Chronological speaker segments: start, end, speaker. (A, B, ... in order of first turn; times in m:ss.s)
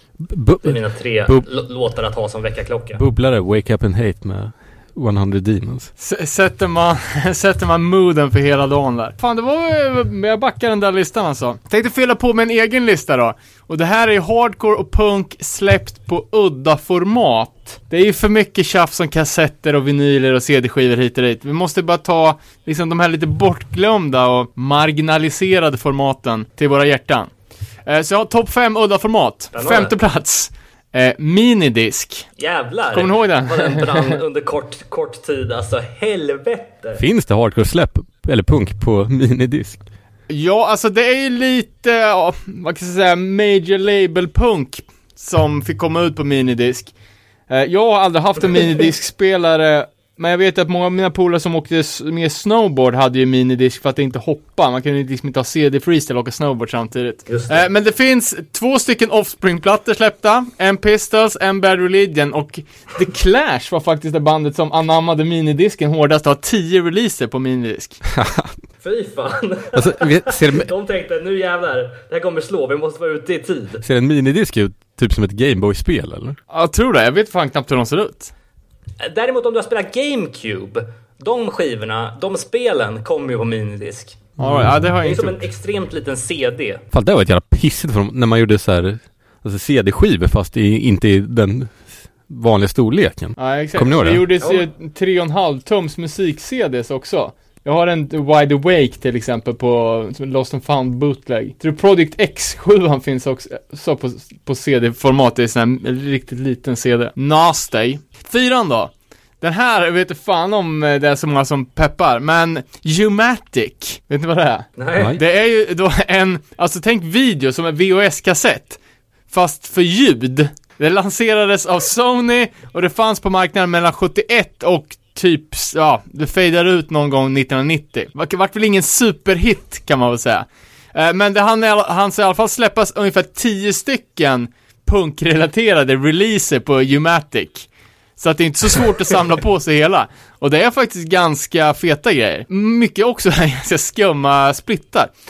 0:00.2-0:01.5 A
0:00.6-0:03.0 B
0:03.0-0:05.9 A
0:06.0-0:27.3 C
0:27.8-0:32.3 C
0:29.5-0:29.9 B
0:32.4-0:37.0 B
0:32.9-0:34.2 C
0:37.0-0:39.8 A
0:40.3-0:46.9 C
0:47.5-1:08.0 C
0:57.3-0:57.7 B
1:08.1-1:08.6 A
1:08.8-1:13.8 B
1:09.7-1:10.7 A
1:13.8-1:16.4 A
1:16.5-1:18.3 C
1:19.0-1:24.2 B
1:24.4-1:24.7 A
1:24.4-1:25.4 C
1:25.0-1:26.8 B
1:26.9-1:34.2 A
1:33.4-1:58.8 C
1:34.4-1:34.6 B
1:54.8-1:55.2 B
1:59.3-2:25.1 C